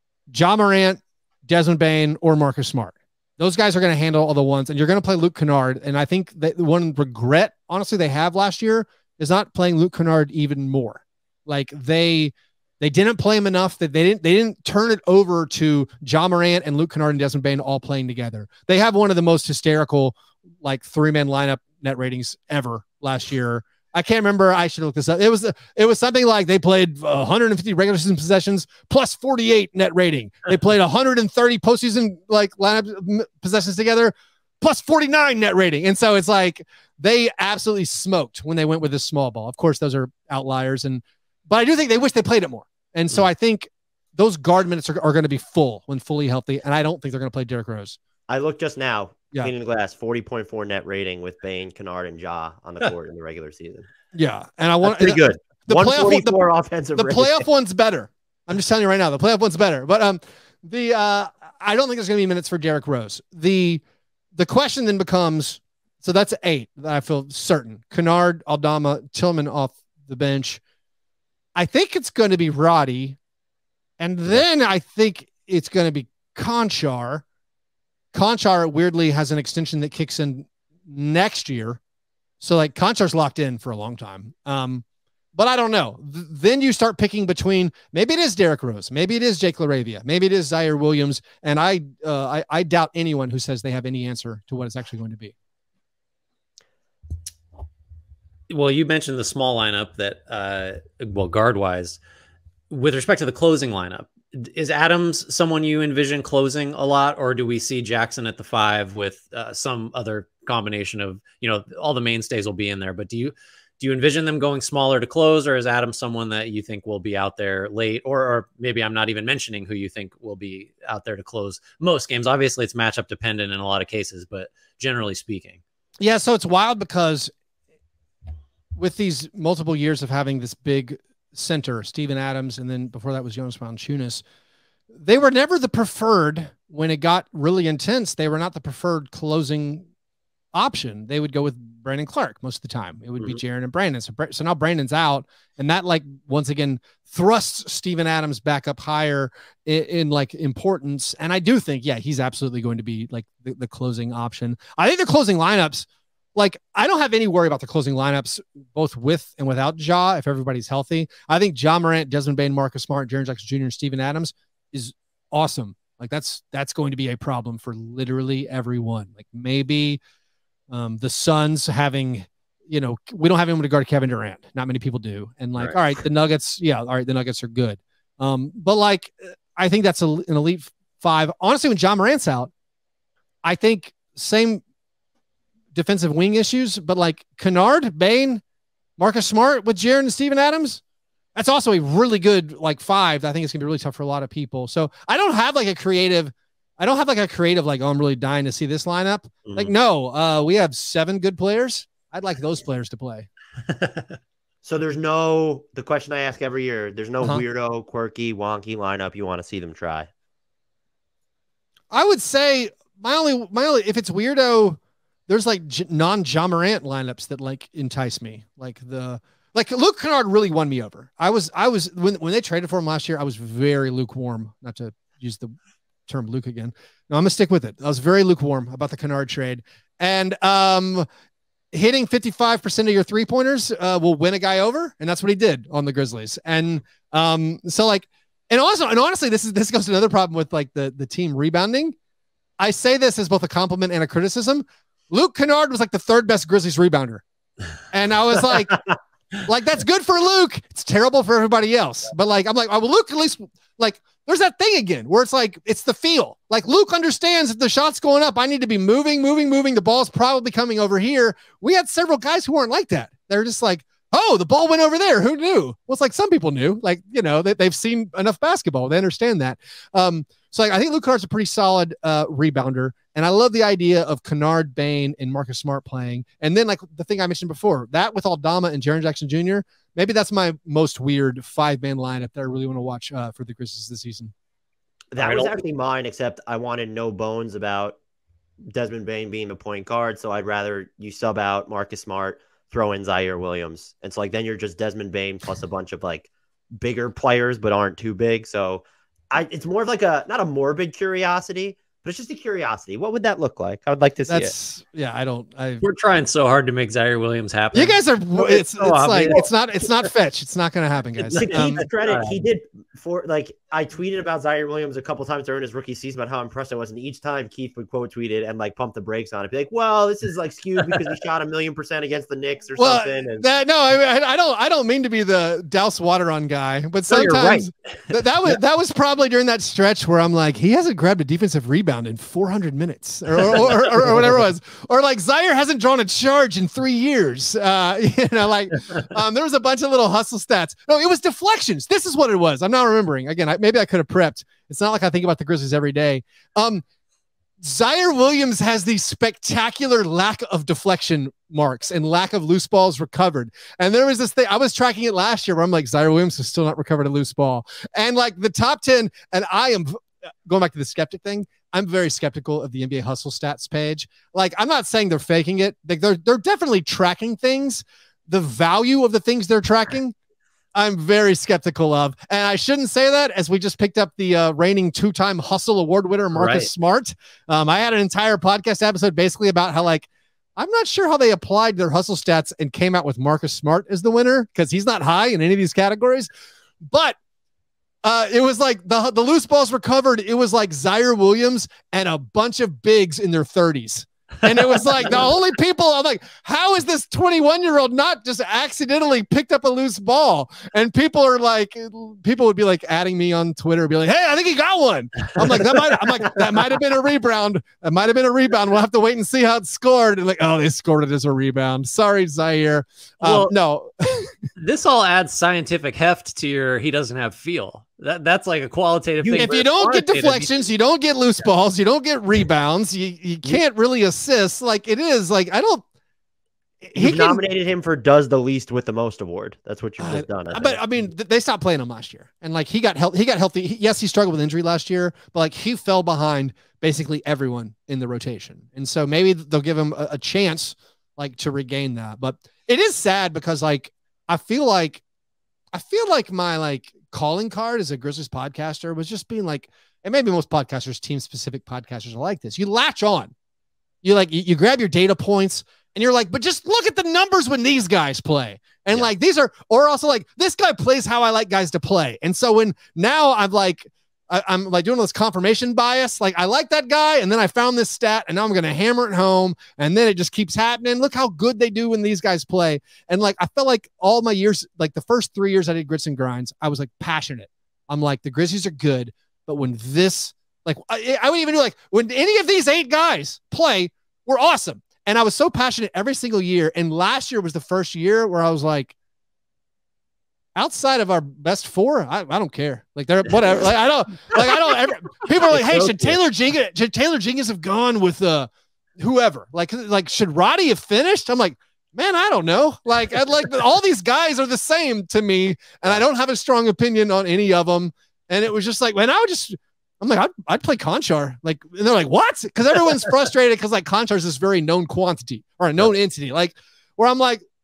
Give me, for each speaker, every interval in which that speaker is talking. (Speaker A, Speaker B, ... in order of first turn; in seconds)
Speaker A: 0.3-48.0, 54.1-56.4, 57.0-63.8, 64.3-70.6, 71.6-73.2, 74.0-77.2, 78.1-81.8, 82.4-95.3, 126.0-127.3, 128.8-134.2, 134.9-139.9, 140.5-170.0, 170.7-182.5, 183.4-184.6, 185.7-188.4, 189.0-190.8, 191.3-203.3, 211.9-225.5, 226.1-231.1, 231.7-242.0, 242.6-247.2, 247.9-248.8, 249.4-284.3, 304.3-305.8, 307.7-311.9, 322.8-346.8, 347.6-370.1, 370.7-386.3, 386.8-387.2, 388.0-414.3, 419.4-425.9, 426.8-427.4, 430.0-445.0, 445.7-453.3, 454.0-488.9, 490.6-517.4
Speaker B: 48.3-53.9, 54.8-57.5, 204.7-210.1, 285.1-288.0, 288.7-304.5, 311.3-323.5, 419.2-419.5, 427.0-430.8
Speaker C: 98.5-102.0, 102.7-125.6, 203.7-204.1, 285.2-285.6, 305.8-309.4, 311.2-312.4, 327.1-327.7, 333.6-334.0, 376.3-376.7, 394.8-395.1, 413.2-413.5, 414.6-420.6, 495.5-496.2